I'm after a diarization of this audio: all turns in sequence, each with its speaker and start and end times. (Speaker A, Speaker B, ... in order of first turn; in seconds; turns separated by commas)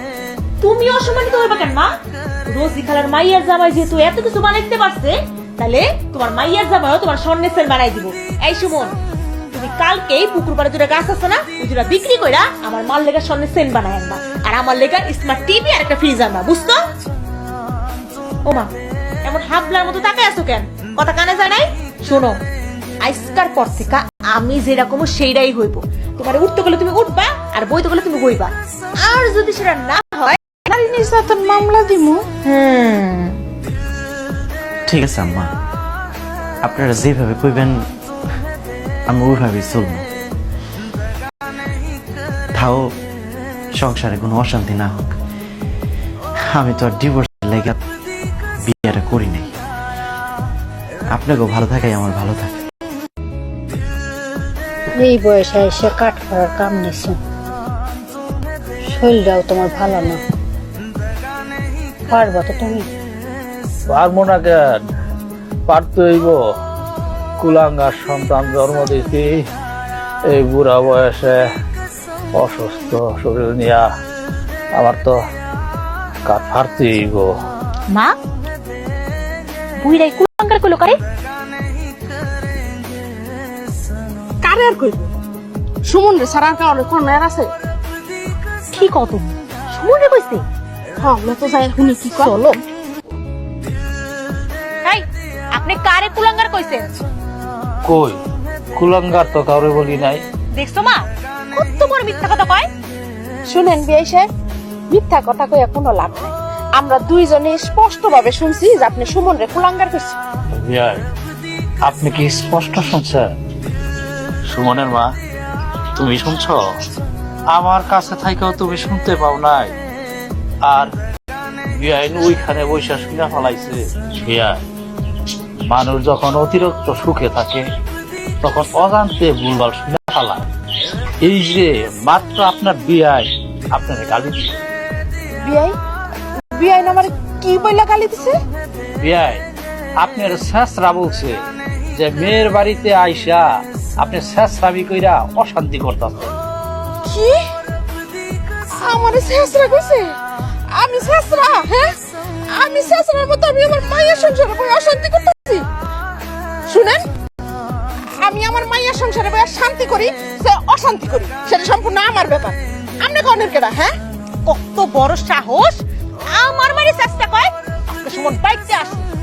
Speaker A: 0.6-1.9, Speaker A: 2.5-8.9, Speaker A: 9.5-16.8, Speaker A: 19.2-22.3, Speaker A: 23.0-30.4, Speaker B: 30.7-32.2, Speaker A: 32.4-33.4, Speaker C: 34.9-35.5, Speaker C: 36.6-37.8, Speaker C: 39.1-40.0, Speaker C: 42.5-42.8, Speaker C: 43.8-45.1, Speaker C: 46.5-47.8, Speaker C: 48.7-49.5, Speaker C: 51.1-52.5, Speaker D: 54.9-57.2, Speaker D: 58.9-60.2, Speaker D: 62.1-62.9, Speaker E: 63.9-64.6, Speaker E: 65.7-66.4, Speaker E: 67.4-69.4, Speaker E: 70.3-71.4, Speaker E: 72.3-73.8, Speaker E: 74.8-75.2, Speaker E: 76.2-77.3, Speaker A: 77.9-78.1, Speaker A: 79.8-80.9, Speaker B: 84.4-85.1, Speaker B: 85.8-87.5, Speaker A: 88.7-90.4, Speaker B: 91.0-92.3, Speaker A: 92.1-92.6, Speaker A: 94.8-96.9, Speaker E: 97.8-98.2, Speaker E: 98.8-100.2, Speaker A: 100.5-102.7, Speaker B: 103.4-104.2, Speaker B: 104.9-110.2, Speaker E: 110.5-111.0, Speaker E: 111.8-113.3, Speaker E: 114.5-115.1, Speaker E: 116.0-116.6, Speaker E: 117.5-119.7, Speaker E: 121.7-124.6, Speaker E: 125.7-127.6, Speaker E: 128.4-130.4, Speaker E: 131.2-134.6, Speaker B: 135.4-135.8, Speaker B: 136.5-138.3, Speaker E: 139.0-139.4, Speaker E: 140.0-141.3, Speaker E: 141.9-143.4, Speaker E: 144.0-146.3, Speaker B: 147.0-147.4, Speaker B: 148.8-150.1, Speaker B: 150.7-151.9, Speaker B: 152.5-155.6, Speaker B: 156.7-157.0, Speaker B: 158.2-163.9, Speaker A: 164.4-165.8, Speaker A: 166.3-169.1